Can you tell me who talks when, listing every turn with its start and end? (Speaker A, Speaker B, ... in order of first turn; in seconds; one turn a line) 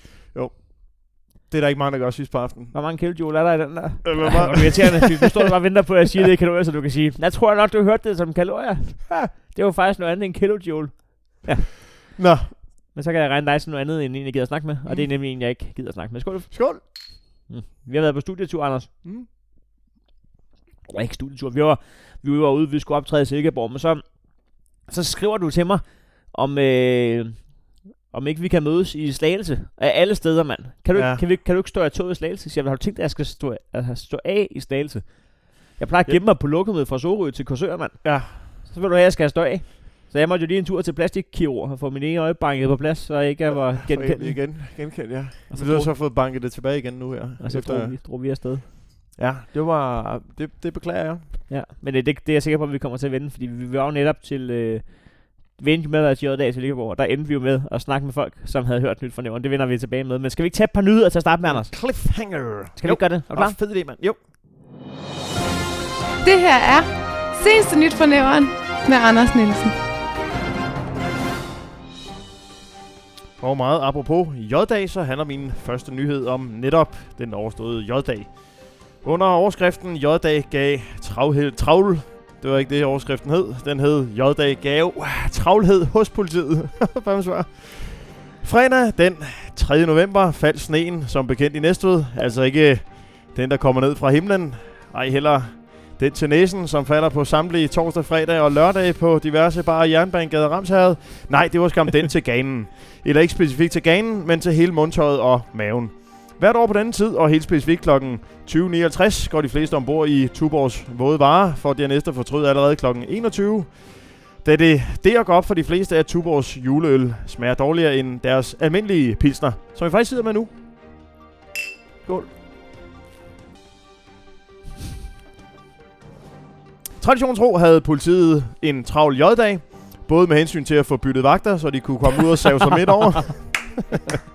Speaker A: 0.3-2.7
Speaker B: 2.7-11.7
Speaker A: 4.0-5.3
Speaker A: 12.2-12.5
Speaker B: 12.9-19.0
Speaker A: 16.5-16.8
Speaker B: 20.9-44.9
Speaker A: 30.9-31.2
Speaker A: 38.0-38.5
Speaker A: 43.8-48.0
Speaker B: 45.5-45.9
Speaker B: 47.4-48.6
Speaker A: 49.2-51.4
Speaker B: 51.5-62.1
Speaker A: 61.4-64.2
Speaker B: 62.8-63.6
Speaker C: 66.2-69.7
Speaker A: 73.4-120.6
Speaker A: 122.0-122.3
Speaker A: 127.0-133.9